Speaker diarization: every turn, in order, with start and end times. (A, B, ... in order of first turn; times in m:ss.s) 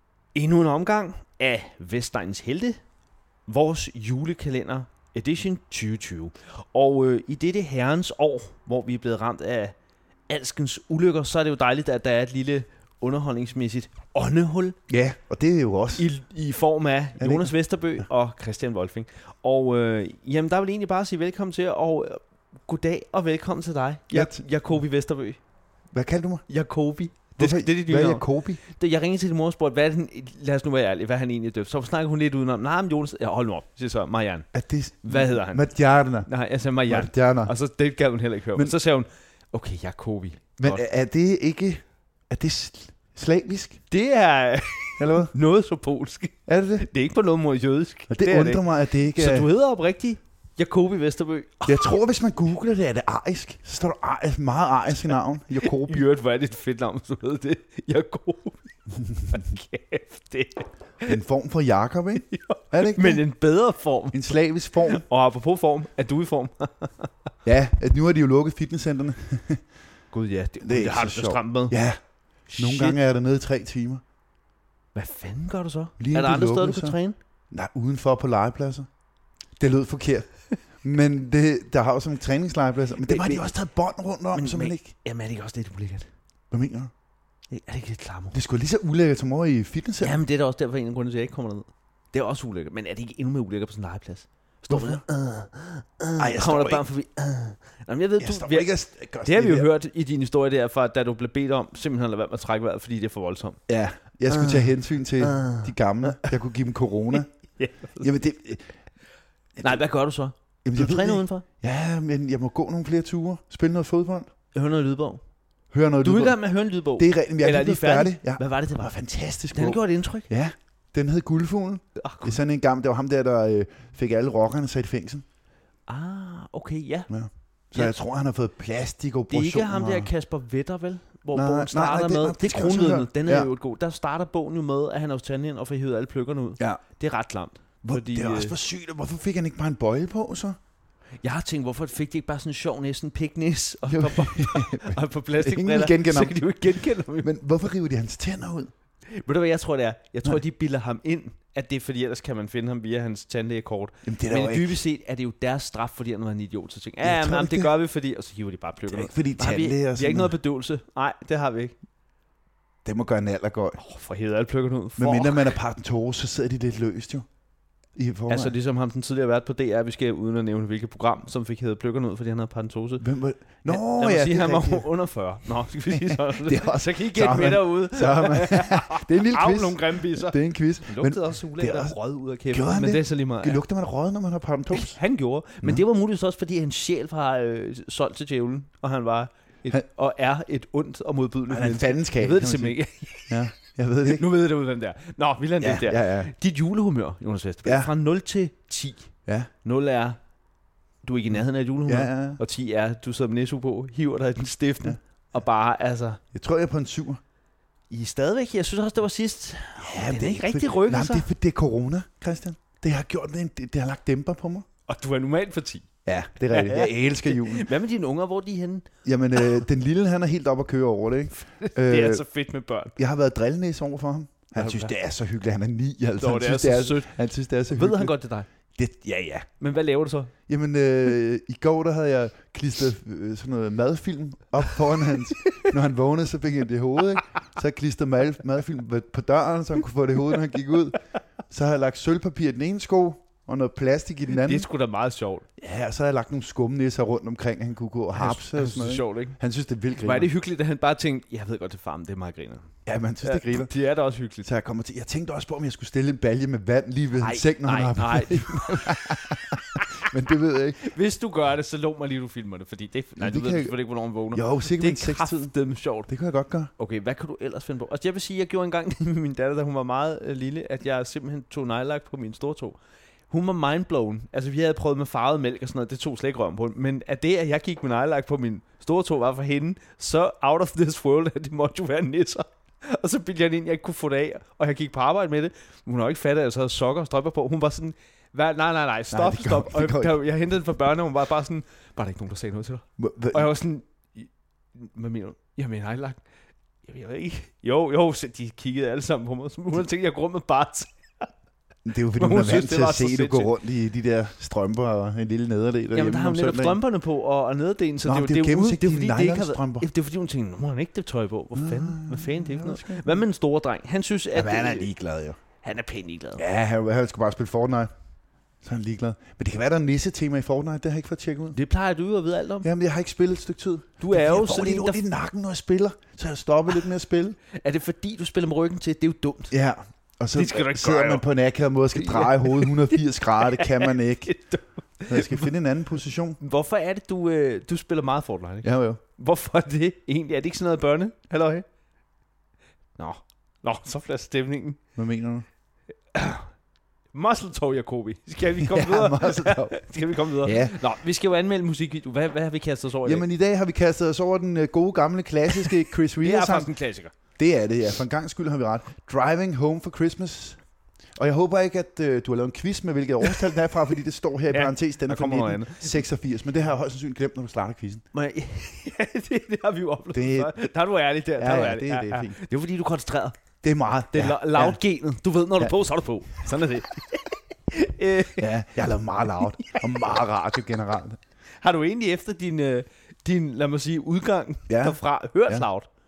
0:00.4-0:02.8 A
0:03.5-0:09.8 A
0:10.3-0:14.8 A
0:14.9-0:16.1 B
0:16.0-0:25.4 A
0:17.2-0:18.1 B
0:24.1-0:24.4 B
0:25.9-0:26.4 B
0:26.5-0:34.5 A
0:27.4-0:28.6 B
0:34.5-0:36.3 B
0:35.0-0:35.7 A
0:36.3-0:40.8 A
0:36.9-0:37.5 B
0:40.6-0:43.8 B
0:43.9-0:52.0 A
0:45.0-0:45.3 B
0:46.5-0:46.9 B
0:48.1-0:49.5 B
0:51.7-0:56.0 B
0:55.6-0:58.7 A
0:59.1-0:59.4 B
0:59.3-1:01.2 A
1:01.1-1:03.2 B
1:02.2-1:07.1 A
1:04.1-1:05.0 B
1:07.4-1:09.6 B
1:10.1-1:11.8 A
1:10.6-1:12.0 B
1:12.5-1:13.0 A
1:12.6-1:14.0 B
1:15.0-1:17.2 A
1:16.0-1:17.0 B
1:17.5-1:18.9 B
1:19.6-1:20.3 B
1:20.8-1:24.9 B
1:23.0-1:23.5 A
1:24.3-1:26.1 A
1:26.5-1:26.9 B
1:27.5-1:28.4 A
1:28.3-1:30.2 B
1:30.0-1:38.7 A
1:34.7-1:35.0 B
1:36.2-1:36.8 B
1:38.2-1:39.7 B
1:39.2-1:43.6 A
1:43.7-1:47.3 B
1:44.3-1:46.3 A
1:47.2-1:48.1 A
1:48.0-1:48.7 B
1:49.6-1:51.4 A
1:50.6-1:54.3 B
1:54.5-1:55.2 A
1:55.7-1:56.4 B
1:56.0-1:58.9 A
1:57.0-2:05.2 B
1:59.5-2:00.3 A
2:02.0-2:02.4 A
2:05.9-2:07.1 A
2:07.1-2:10.1 B
2:09.3-2:18.6 A
2:11.3-2:13.5 B
2:17.8-2:20.6 B
2:21.2-2:27.3 A
2:23.9-2:28.7 B
2:29.1-2:41.8 A
2:34.0-2:34.8 B
2:37.0-2:37.7 B
2:38.9-2:40.3 B
2:42.8-2:43.8 B
2:43.8-2:45.6 A
2:45.0-2:47.3 B
2:48.0-2:48.5 B
2:48.3-2:53.0 A
2:53.0-2:54.9 B
2:53.7-3:03.6 A
2:55.9-3:02.0 B
3:02.5-3:05.0 B
3:04.7-3:13.5 A
3:11.5-3:12.8 B
3:13.3-3:14.2 B
3:14.0-3:19.1 A
3:15.6-3:16.3 B
3:17.6-3:17.9 B
3:19.6-3:20.2 A
3:21.0-3:26.2 A
3:21.9-3:22.4 B
3:26.3-3:27.2 B
3:27.9-3:31.3 A
3:29.8-3:34.7 B
3:34.9-3:35.9 A
3:36.0-3:37.7 B
3:36.4-3:38.9 A
3:39.0-3:42.2 B
3:41.4-3:42.9 A
3:43.0-3:48.1 B
3:44.6-3:44.9 A
3:46.2-3:47.1 A
3:47.7-3:48.5 A
3:48.8-3:49.5 B
3:49.6-3:50.3 A
3:50.5-4:04.7 B
3:55.4-3:55.7 A
4:04.3-4:05.4 A
4:05.6-4:10.3 B
4:08.1-4:09.4 A
4:10.0-4:12.7 A
4:12.9-4:13.7 B
4:13.2-4:14.5 A
4:14.4-4:20.9 B
4:17.2-4:20.1 A
4:20.8-4:26.1 A
4:23.2-4:23.8 B
4:24.3-4:25.5 B
4:26.1-4:26.7 B
4:26.8-4:32.8 A
4:33.3-4:56.2 A
4:49.1-4:50.2 B
4:53.0-4:53.5 B
4:56.9-5:01.3 A
5:01.8-5:06.8 B
5:02.2-5:03.5 A
5:05.9-5:14.9 A
5:08.0-5:09.9 B
5:11.6-5:13.2 B
5:14.3-5:15.4 B
5:15.6-5:16.4 A
5:16.4-5:17.9 B
5:18.6-5:21.6 B
5:21.5-5:22.7 A
5:22.6-5:27.4 B
5:24.0-5:25.0 A
5:27.5-5:29.6 A
5:29.5-5:34.3 B
5:30.3-5:31.3 A
5:31.9-5:35.5 A
5:35.1-5:36.4 B
5:36.4-5:41.6 A
5:38.6-5:39.0 B
5:43.0-5:44.8 A
5:45.0-5:45.5 B
5:46.1-5:46.5 A
5:47.1-5:53.3 A
5:48.6-5:50.8 B
5:53.0-5:56.7 B
5:55.5-5:57.1 A
5:57.4-6:00.6 B
6:01.2-6:08.0 B
6:04.5-6:06.0 A
6:08.1-6:13.4 A
6:10.1-6:10.5 B
6:11.4-6:12.4 B
6:13.6-6:14.8 B
6:14.1-6:18.5 A
6:18.4-6:21.2 B
6:19.6-6:20.1 A
6:21.6-6:25.9 A
6:24.7-6:25.7 B